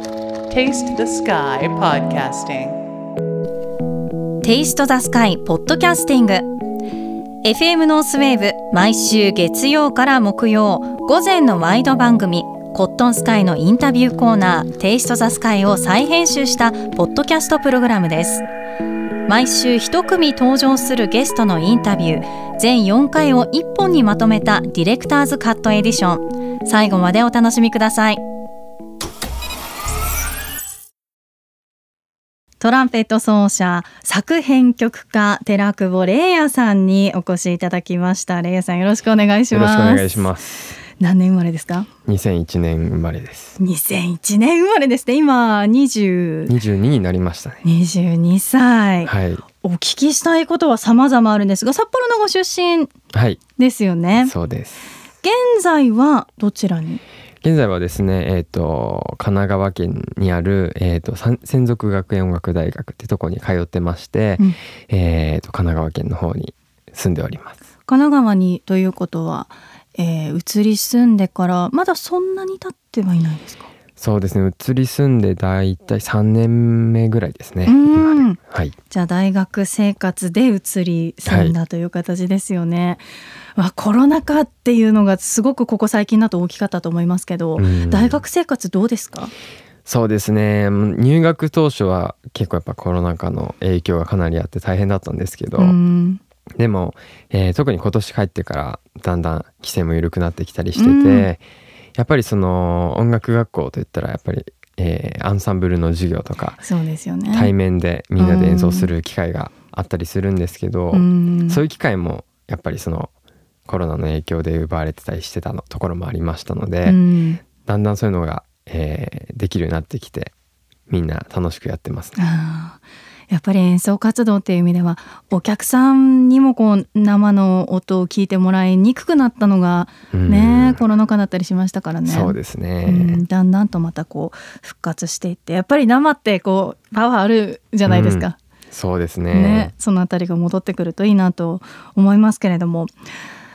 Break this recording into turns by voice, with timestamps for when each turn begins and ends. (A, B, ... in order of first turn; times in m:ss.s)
0:00.5-0:02.8 A
0:04.4-0:06.5 B
0:07.4-0:18.4 B
0:19.3-0:28.2 B
0:32.6-0:40.3 B
0:39.5-0:40.8 C
0:41.0-0:41.9 B
0:42.1-0:43.6 C
0:43.6-0:46.5 B
0:46.5-0:47.6 C
0:47.6-0:52.9 B
0:49.0-0:49.4 C
0:53.1-0:53.4 C
0:53.6-0:54.3 B
0:54.2-0:54.8 C
0:55.2-0:57.0 B
0:57.4-1:07.6 C
1:07.9-1:13.7 B
1:14.0-1:18.8 C
1:17.7-1:18.4 B
1:18.9-1:23.0 B
1:21.3-1:21.6 C
1:23.6-1:29.3 B
1:27.6-1:28.2 C
1:29.8-1:35.8 C
1:35.6-1:36.2 B
1:36.6-1:41.4 C
1:40.8-1:41.3 B
1:42.0-1:46.6 C
1:46.6-1:47.5 B
1:47.3-1:53.1 C
1:48.2-1:48.9 B
1:50.9-1:51.6 B
1:53.7-2:00.3 C
1:56.8-1:57.4 B
2:00.9-2:02.2 C
2:02.2-2:18.4 B
2:10.1-2:10.8 C
2:12.0-2:13.2 C
2:17.9-2:19.7 C
2:19.3-2:22.9 B